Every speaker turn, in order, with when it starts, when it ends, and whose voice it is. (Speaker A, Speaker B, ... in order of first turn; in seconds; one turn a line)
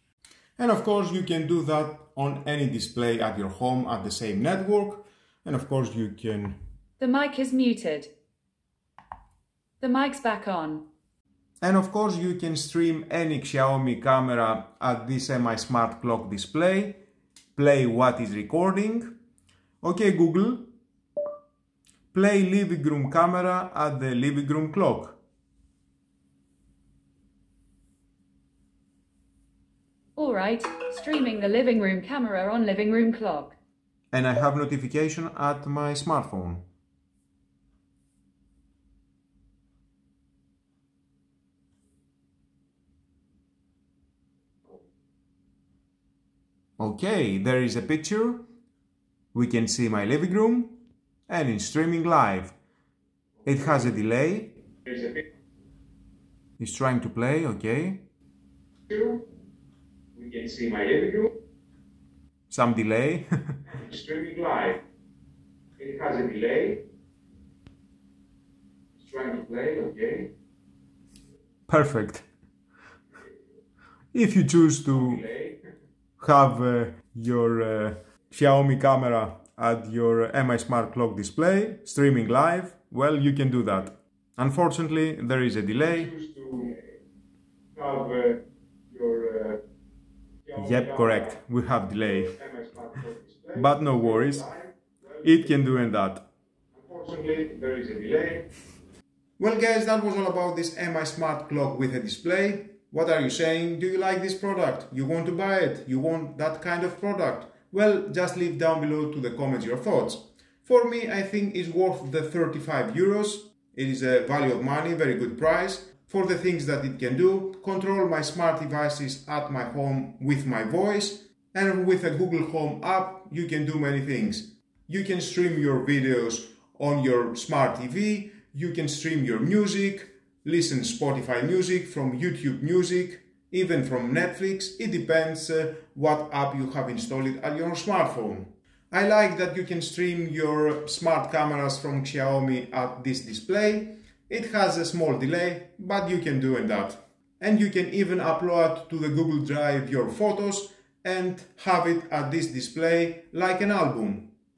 Speaker A: 0.6-6.6
Speaker B: 7.0-8.1
Speaker B: 9.8-10.8
Speaker A: 11.6-17.0
Speaker A: 17.6-19.1
Speaker A: 19.8-20.7
Speaker A: 22.1-25.2
Speaker B: 30.2-33.5
Speaker A: 34.1-36.6
Speaker A: 46.8-48.4
Speaker A: 49.3-52.5
Speaker A: 53.4-54.5
Speaker C: 54.9-55.2
Speaker A: 56.6-58.0
Speaker C: 58.9-59.2
Speaker C: 60.1-61.4
Speaker A: 62.5-63.5
Speaker C: 63.7-64.8
Speaker C: 65.8-66.8
Speaker C: 69.0-70.3
Speaker A: 71.7-72.3
Speaker A: 74.1-75.2
Speaker C: 74.9-75.6
Speaker A: 76.2-86.1
Speaker C: 85.9-86.8
Speaker C: 87.7-89.6
Speaker C: 90.4-91.4
Speaker A: 90.6-92.4
Speaker C: 92.0-95.4
Speaker A: 93.5-94.5
Speaker A: 95.2-96.2
Speaker C: 96.7-98.5
Speaker A: 99.4-154.3